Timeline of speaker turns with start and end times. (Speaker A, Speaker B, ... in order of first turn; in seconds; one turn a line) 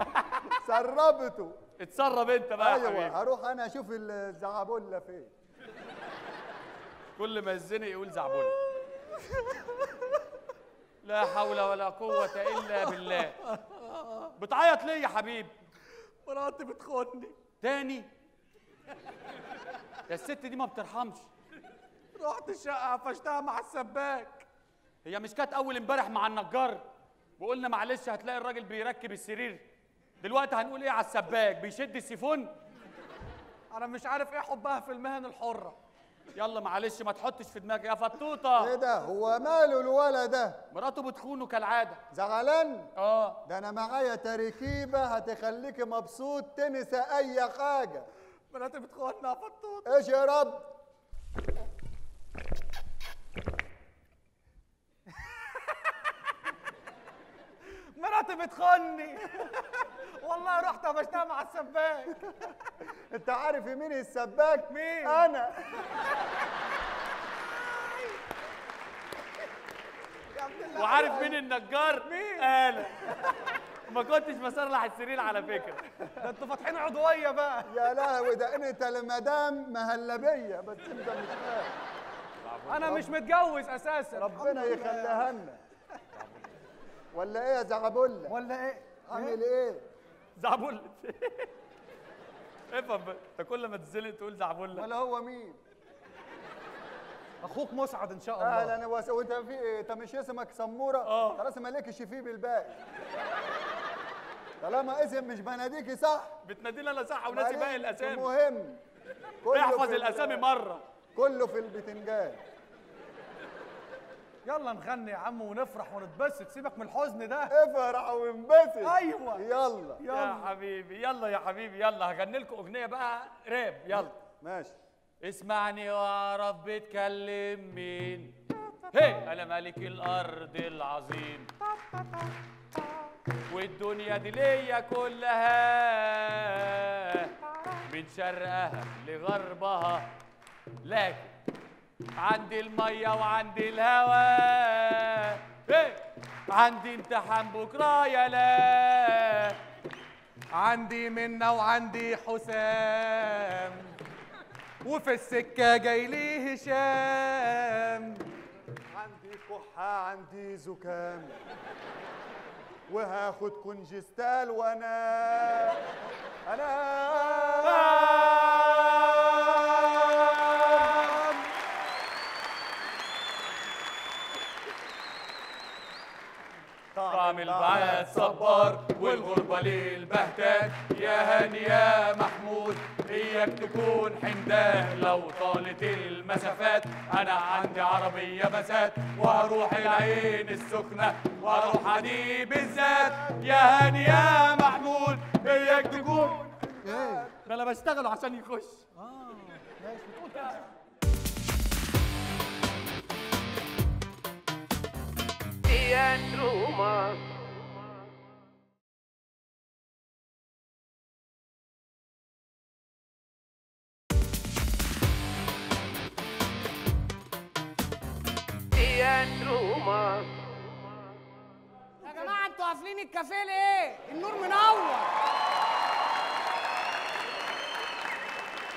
Speaker A: 0.6-1.6
Speaker B: 1.8-3.2
Speaker A: 2.6-5.3
Speaker B: 7.2-8.6
Speaker C: 8.9-10.1
Speaker B: 11.0-13.4
Speaker C: 12.6-14.3
Speaker B: 14.3-15.5
Speaker C: 16.2-17.4
Speaker B: 17.6-18.1
Speaker B: 20.1-21.3
Speaker C: 22.1-24.5
Speaker B: 25.0-26.8
Speaker B: 27.4-29.6
Speaker B: 30.2-32.5
Speaker C: 33.7-35.8
Speaker B: 36.3-38.8
Speaker A: 38.6-40.6
Speaker B: 40.7-42.0
Speaker A: 42.1-42.9
Speaker B: 43.0-43.4
Speaker A: 43.5-48.1
Speaker C: 48.5-50.0
Speaker A: 49.9-50.7
Speaker C: 55.2-55.6
Speaker C: 57.7-62.3
Speaker A: 63.1-65.7
Speaker C: 64.7-65.3
Speaker C: 70.3-71.3
Speaker B: 70.7-75.9
Speaker C: 72.0-72.5
Speaker C: 76.2-77.8
Speaker A: 77.7-81.7
Speaker B: 82.4-83.1
Speaker C: 82.7-85.3
Speaker A: 84.2-85.6
Speaker B: 86.1-86.5
Speaker A: 87.1-88.4
Speaker C: 88.2-89.4
Speaker A: 89.1-89.8
Speaker B: 90.4-91.5
Speaker B: 92.7-94.9
Speaker A: 94.7-95.6
Speaker C: 97.4-98.8
Speaker A: 98.4-102.8
Speaker B: 101.0-101.4
Speaker A: 104.6-106.4
Speaker B: 106.4-108.3
Speaker A: 107.3-108.8
Speaker A: 109.4-110.4
Speaker B: 109.5-110.8
Speaker A: 111.1-112.4
Speaker C: 114.4-117.5
Speaker A: 117.5-120.0
Speaker C: 118.8-119.5
Speaker C: 120.0-120.5
Speaker B: 120.1-124.1
Speaker A: 123.9-124.7
Speaker B: 125.2-131.5
Speaker B: 133.5-140.1
Speaker B: 140.8-141.3
Speaker B: 142.2-149.6
Speaker C: 150.5-154.0
Speaker C: 154.8-158.2
Speaker A: 158.9-161.4
Speaker A: 162.9-165.8
Speaker A: 166.4-168.1
Speaker B: 167.6-171.3
Speaker A: 176.9-178.2
Speaker B: 177.1-198.8
Speaker A: 196.9-197.2
Speaker C: 199.0-200.7
Speaker D: 222.0-225.1